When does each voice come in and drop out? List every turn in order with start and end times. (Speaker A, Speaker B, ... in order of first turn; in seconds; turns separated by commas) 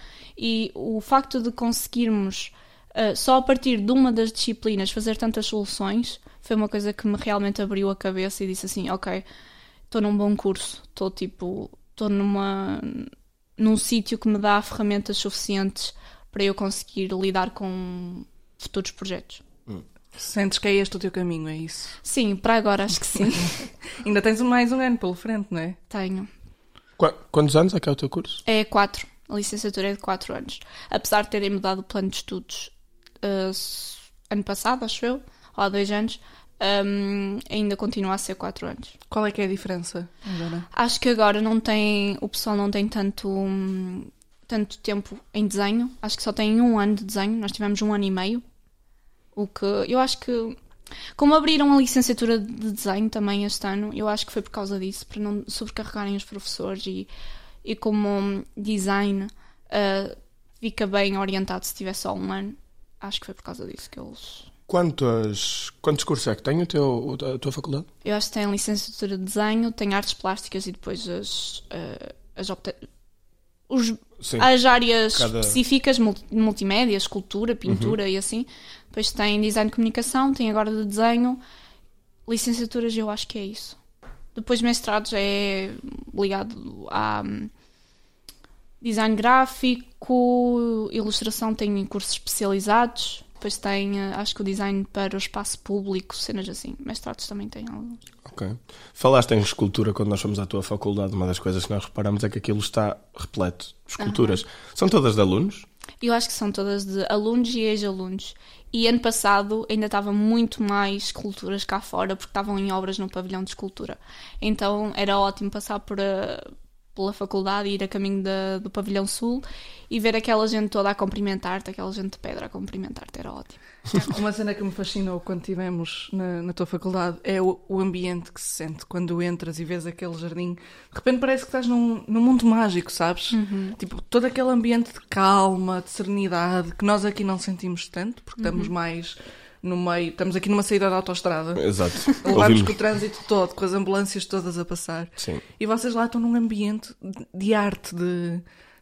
Speaker A: 0.4-9.2, Speaker A: 9.9-19.4, Speaker B: 20.2-22.0, Speaker A: 22.0-23.6, Speaker B: 24.0-25.8, Speaker A: 25.9-26.3, Speaker C: 27.0-28.4, Speaker A: 28.5-39.0, Speaker B: 39.1-40.7, Speaker A: 40.7-48.4, Speaker A: 49.4-50.6, Speaker A: 51.2-57.1, Speaker A: 57.6-64.5, Speaker C: 64.7-67.9, Speaker A: 68.0-72.9, Speaker A: 73.7-81.4, Speaker C: 74.2-74.5, Speaker C: 75.1-75.6, Speaker C: 77.7-78.0, Speaker A: 82.3-83.8, Speaker A: 84.3-87.5, Speaker A: 88.8-98.0, Speaker C: 98.2-105.7, Speaker A: 104.0-104.4, Speaker A: 106.0-123.6, Speaker B: 124.0-148.4, Speaker A: 133.3-133.8, Speaker A: 138.4-138.7, Speaker C: 141.6-142.8, Speaker C: 145.2-145.4